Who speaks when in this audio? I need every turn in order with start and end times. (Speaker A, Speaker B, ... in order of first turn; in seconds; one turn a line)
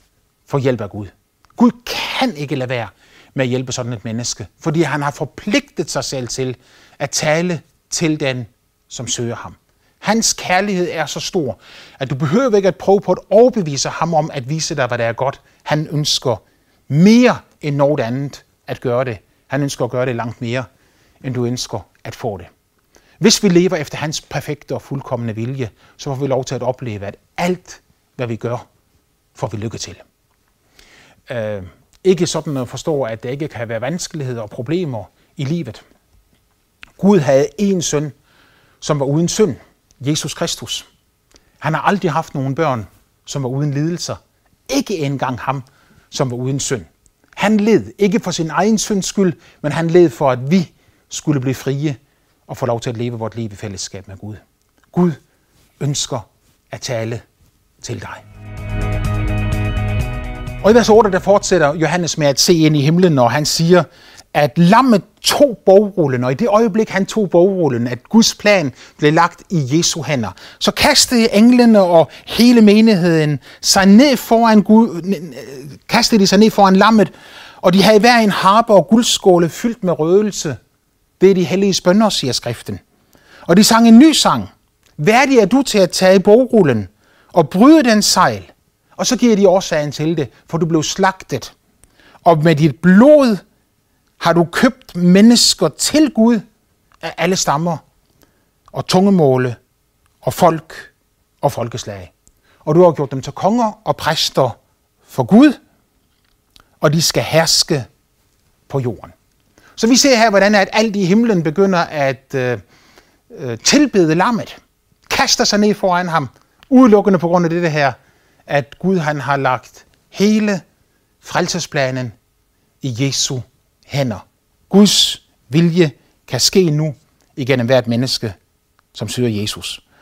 Speaker A: 0.5-20.7
Speaker A: 21.2-22.5
Speaker A: 23.2-28.6
Speaker A: 29.4-30.0
Speaker A: 31.3-35.8
Speaker A: 37.0-38.1
Speaker A: 38.8-40.9
Speaker A: 41.6-54.4
Speaker A: 54.9-55.2
Speaker A: 55.8-57.2
Speaker A: 57.8-58.2
Speaker A: 60.6-80.6
Speaker A: 81.2-82.8
Speaker A: 83.5-91.5
Speaker A: 92.2-93.4
Speaker A: 94.2-96.4
Speaker A: 97.0-97.8
Speaker A: 98.7-99.6
Speaker A: 100.2-100.9
Speaker A: 101.4-102.1
Speaker A: 102.7-104.6
Speaker A: 105.1-105.6
Speaker A: 106.8-107.9
Speaker A: 108.7-109.2
Speaker A: 109.8-112.6
Speaker A: 113.3-114.6
Speaker A: 115.1-118.0
Speaker A: 118.5-120.6
Speaker A: 121.2-122.2
Speaker A: 122.8-128.3
Speaker A: 128.9-129.8